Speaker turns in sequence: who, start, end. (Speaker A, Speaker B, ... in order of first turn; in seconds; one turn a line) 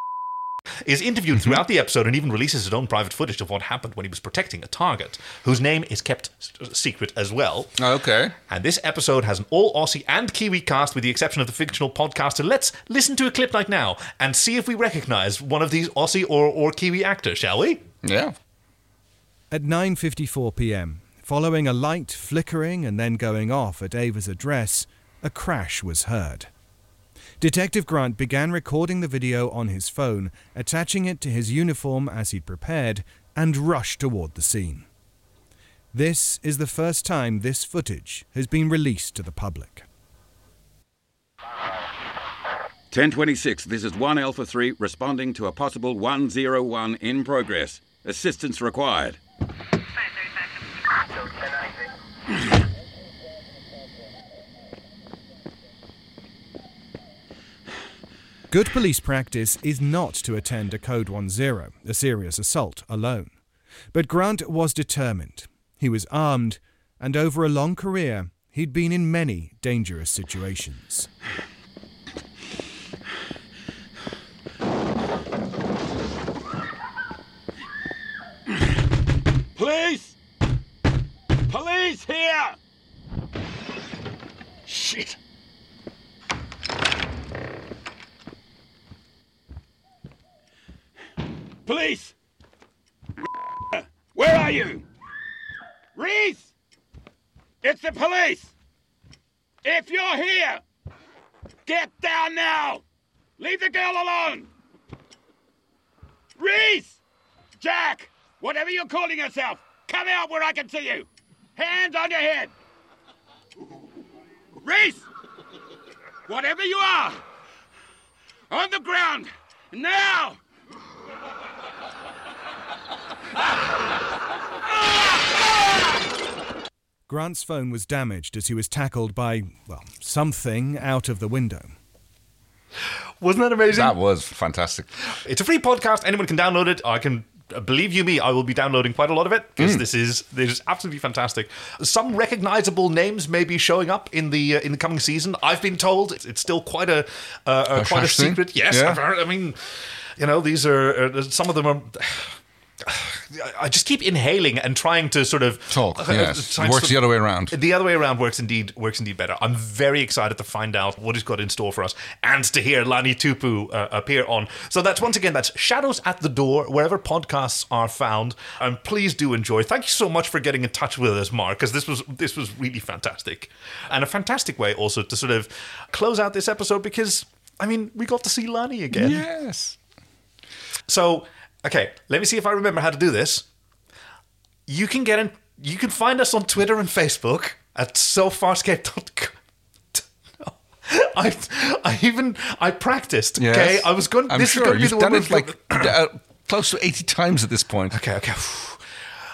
Speaker A: 0.8-7.7
Speaker B: 7.8-8.3
Speaker A: 8.5-17.8
Speaker B: 18.0-18.3
Speaker C: 19.5-26.5
Speaker C: 27.4-34.9
Speaker C: 35.9-39.9
Speaker D: 42.9-49.2
Speaker C: 58.5-63.3
Speaker C: 63.9-71.1
Speaker E: 79.5-80.2
Speaker E: 81.5-82.6
Speaker E: 84.7-85.2
Speaker E: 91.7-92.1
Speaker E: 93.7-94.8
Speaker E: 95.9-96.5
Speaker E: 97.6-98.5
Speaker E: 99.6-100.6
Speaker E: 101.7-102.8
Speaker E: 103.4-104.5
Speaker E: 106.4-107.0
Speaker E: 107.6-112.5
Speaker E: 114.6-115.1
Speaker E: 116.3-117.2
Speaker E: 118.5-120.4
Speaker C: 127.1-131.8
Speaker A: 133.2-133.9
Speaker B: 133.7-134.9
Speaker A: 135.1-179.2
Speaker B: 139.6-139.8
Speaker B: 147.7-149.0
Speaker B: 155.7-157.5
Speaker B: 178.9-179.8
Speaker A: 180.9-183.5
Speaker A: 184.7-189.3
Speaker A: 189.9-195.9
Speaker B: 193.4-198.0
Speaker A: 197.9-198.8